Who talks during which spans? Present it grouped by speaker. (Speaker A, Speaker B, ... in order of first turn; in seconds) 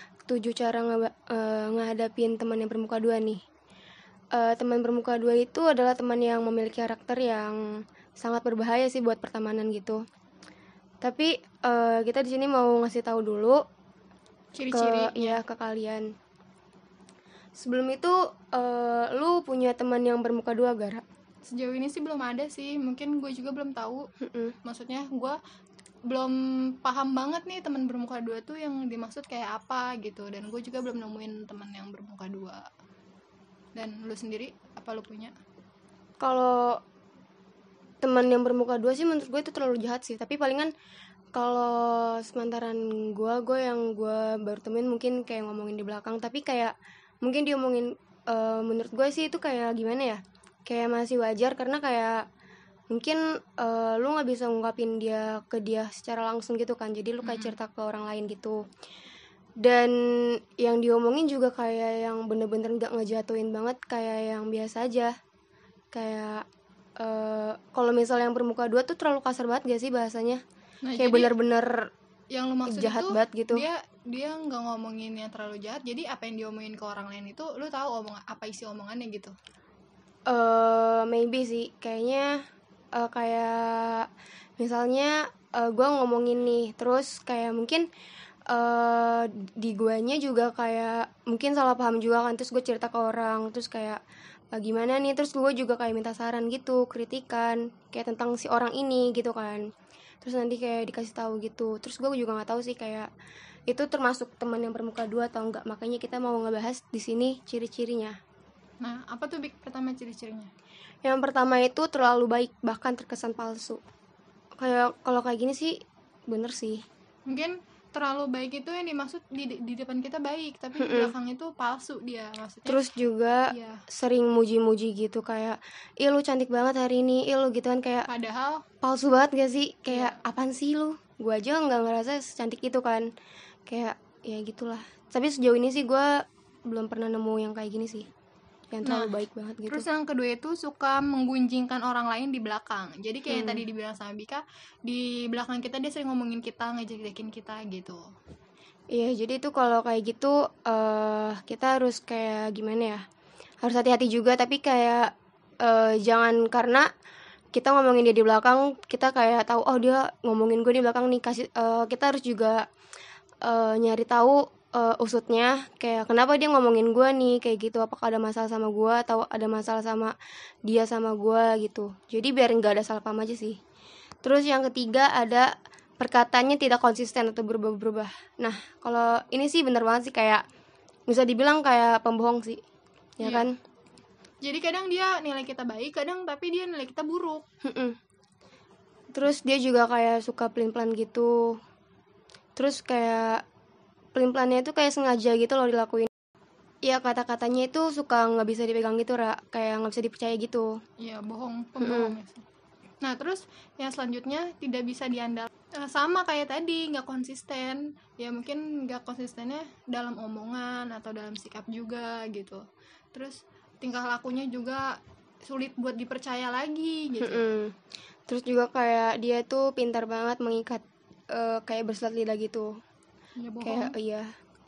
Speaker A: 0.3-3.4, 4.3-10.0, 11.0-13.6, 14.7-16.1, 17.6-21.0, 24.2-24.6, 36.2-36.8, 38.0-40.7, 41.3-52.3, 52.9-58.6, 59.6-65.1, 65.9-66.5, 67.0-70.4, 71.0-71.9, 72.7-73.7, 80.3-82.4, 83.0-84.1, 84.6-87.9, 88.5-94.0, 94.5-99.7, 100.2-103.1, 103.7-108.2, 111.0-113.8, 114.6-116.8, 120.8-121.1, 122.7-128.1, 128.8-133.1, 133.7-138.1, 138.7-139.8, 143.3-143.6, 148.9-153.0, 153.6-156.9, 157.5-162.7, 163.4-173.6, 174.2-180.4, 181.1-182.6, 183.2-183.6, 187.6-188.0, 189.1-191.6, 192.6-193.4, 194.1-196.1, 196.8-200.8, 201.8-202.2, 217.2-217.8, 218.3-222.8, 223.6-224.3
Speaker B: 14.6-15.4, 21.5-24.1, 24.6-25.4, 26.1-32.6, 33.8-35.3, 57.2-57.5, 70.8-71.3, 72.3-79.3, 108.8-110.5, 117.3-122.8, 123.5-123.8, 128.1-128.6, 129.9-130.2, 138.8-139.1, 139.7-148.0, 183.2-183.5, 184.4-187.4, 201.0-202.4, 203.0-217.5, 223.4-223.9